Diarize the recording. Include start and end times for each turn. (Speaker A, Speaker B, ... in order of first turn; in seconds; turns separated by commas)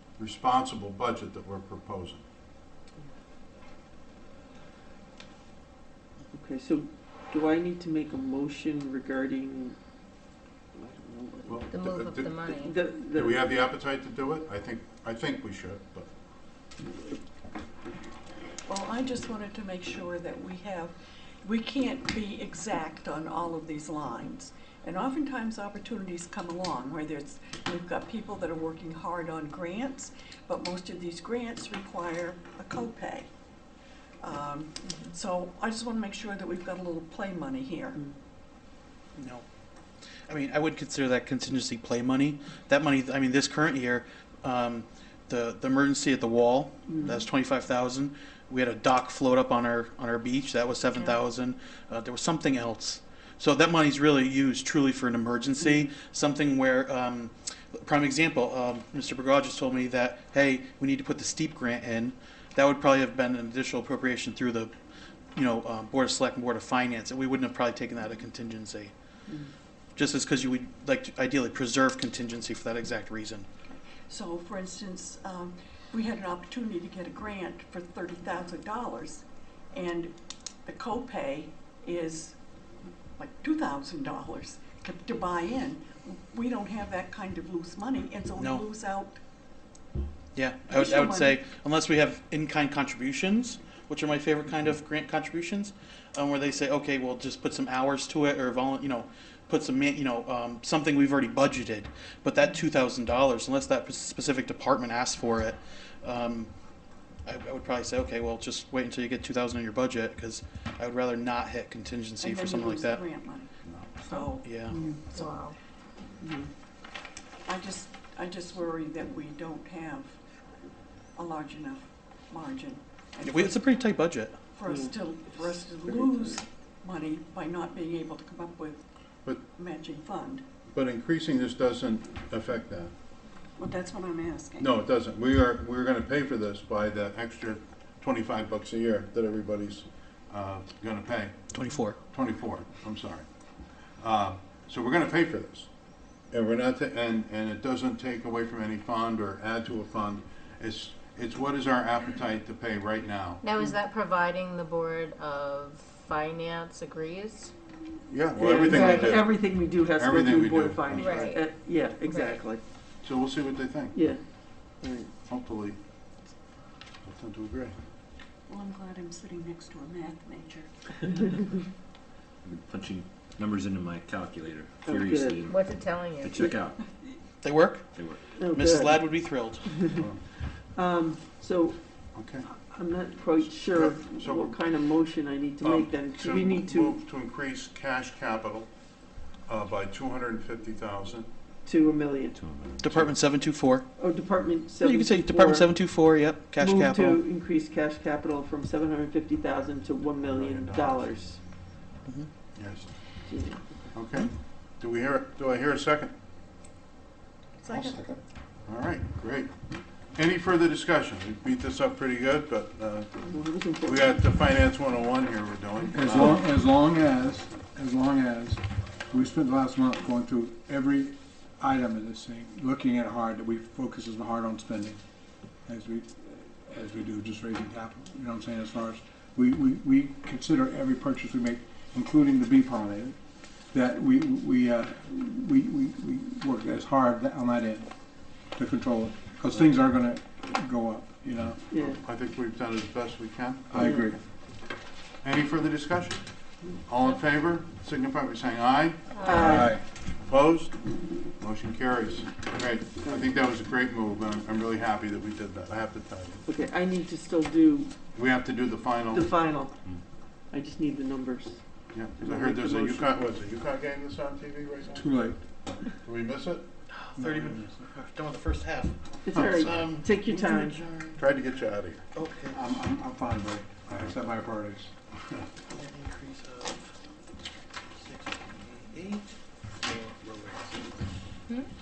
Speaker A: 0.2-2.2, Speaker B: 6.3-9.8, Speaker B: 10.7-11.6, Speaker A: 11.5-12.3, Speaker C: 11.7-12.8, Speaker B: 12.6-13.4, Speaker A: 13.1-16.1, Speaker D: 18.7-33.3, Speaker D: 34.2-38.0, Speaker C: 34.9-35.1, Speaker E: 39.2-39.4, Speaker E: 40.3-64.7, Speaker B: 46.9-47.2, Speaker E: 65.3-68.9, Speaker E: 70.0-73.5, Speaker D: 73.7-80.1, Speaker D: 80.7-82.3, Speaker D: 83.2-89.2, Speaker E: 88.4-88.6, Speaker E: 90.3-106.5, Speaker D: 90.7-91.4, Speaker E: 107.2-113.0, Speaker D: 112.2-113.5, Speaker D: 114.0-115.3, Speaker E: 114.4-114.8, Speaker B: 114.7-115.0, Speaker C: 115.1-115.5, Speaker B: 116.2-116.5, Speaker D: 117.5-120.2, Speaker D: 121.1-123.7, Speaker E: 123.2-124.3, Speaker D: 124.5-128.8, Speaker B: 124.7-125.5, Speaker D: 129.6-130.4, Speaker A: 130.7-132.9, Speaker D: 133.6-134.7, Speaker A: 134.6-141.4, Speaker E: 141.5-142.0, Speaker A: 142.1-143.2, Speaker A: 144.0-145.7, Speaker A: 146.3-153.4, Speaker C: 153.4-157.5, Speaker A: 158.1-159.3, Speaker B: 158.4-162.6, Speaker C: 158.7-159.2, Speaker A: 159.9-161.3, Speaker C: 160.9-161.4, Speaker C: 162.1-162.4, Speaker A: 163.0-164.0, Speaker B: 163.9-164.2, Speaker B: 164.8-165.1, Speaker A: 165.3-165.8, Speaker A: 167.0-167.8, Speaker D: 168.5-170.7, Speaker F: 172.4-176.8, Speaker B: 174.8-175.4, Speaker C: 175.4-176.4, Speaker E: 177.4-177.9, Speaker F: 177.9-178.2, Speaker B: 178.3-179.0, Speaker E: 178.4-179.7, Speaker A: 179.9-180.2, Speaker B: 180.7-181.8, Speaker A: 182.1-182.5, Speaker B: 182.5-187.0, Speaker A: 183.7-184.6, Speaker A: 185.6-188.7, Speaker A: 189.5-191.3, Speaker B: 191.7-192.4, Speaker F: 192.3-193.1, Speaker E: 192.8-193.8, Speaker B: 194.0-195.7, Speaker E: 194.8-197.2, Speaker B: 196.6-201.4, Speaker A: 200.2-201.1, Speaker A: 202.6-202.9, Speaker B: 203.2-203.8, Speaker A: 203.9-206.1, Speaker C: 207.6-207.9, Speaker G: 207.7-208.1, Speaker A: 208.7-209.5, Speaker A: 210.1-213.2, Speaker B: 213.3-214.2, Speaker A: 213.8-216.4, Speaker G: 215.9-225.0, Speaker G: 225.7-233.2, Speaker G: 233.7-237.9, Speaker G: 238.6-241.6, Speaker B: 241.7-242.0, Speaker A: 242.0-244.0, Speaker G: 243.7-244.2, Speaker B: 243.8-244.1, Speaker A: 245.2-246.2, Speaker A: 246.8-249.7, Speaker B: 249.2-249.7, Speaker G: 249.3-249.8, Speaker A: 250.2-250.8, Speaker A: 251.4-256.4, Speaker B: 253.0-253.4, Speaker B: 256.4-257.9, Speaker A: 258.1-259.3, Speaker B: 259.1-259.7, Speaker B: 260.5-261.6, Speaker A: 261.9-265.3, Speaker B: 262.2-263.1, Speaker G: 264.9-265.4, Speaker A: 265.8-266.7, Speaker E: 266.9-271.5, Speaker G: 267.2-267.7, Speaker B: 269.2-270.8, Speaker A: 269.3-269.9, Speaker A: 271.1-272.0, Speaker E: 272.1-272.6, Speaker G: 272.5-274.9, Speaker E: 275.7-276.9, Speaker E: 278.0-279.3, Speaker E: 279.8-280.5